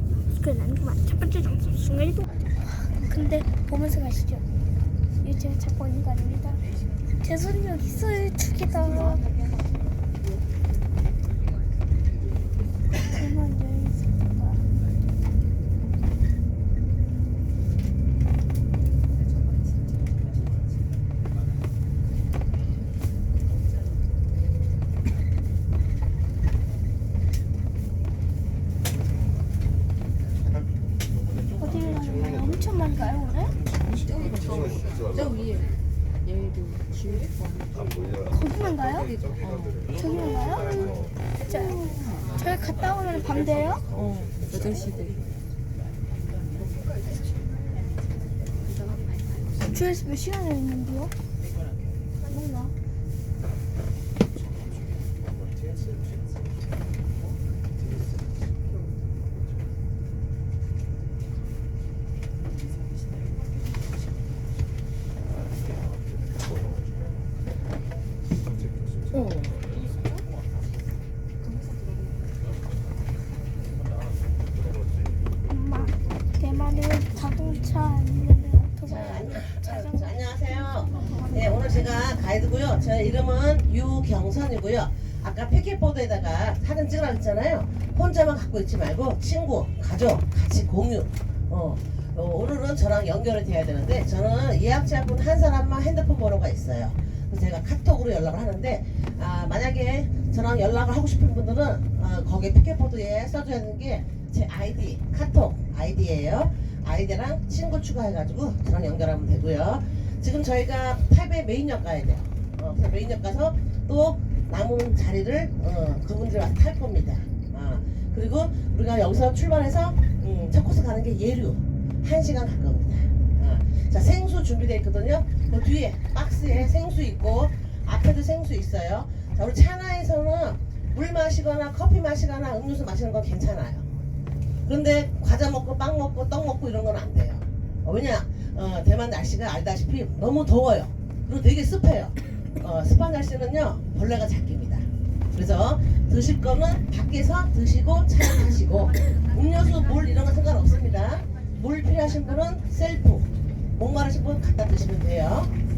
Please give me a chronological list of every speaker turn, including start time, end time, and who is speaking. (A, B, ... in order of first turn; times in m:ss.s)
0:00.4-0:04.4 A
0:05.2-0:06.6 A
0:07.2-0:09.2 A
0:13.0-0:14.7 A
0:31.6-0:33.6 A
0:34.0-0:34.6 B
0:35.1-0:35.6 B
0:36.3-0:37.6 B
0:38.3-0:39.2 A
0:39.4-0:39.8 B
0:39.9-0:43.8 A
0:44.0-0:45.1 B
0:49.6-0:51.1 A
0:52.4-0:52.7 A
1:15.5-1:20.2 A
1:18.9-2:13.9 C
1:20.8-1:21.8 A
2:14.7-2:35.5 C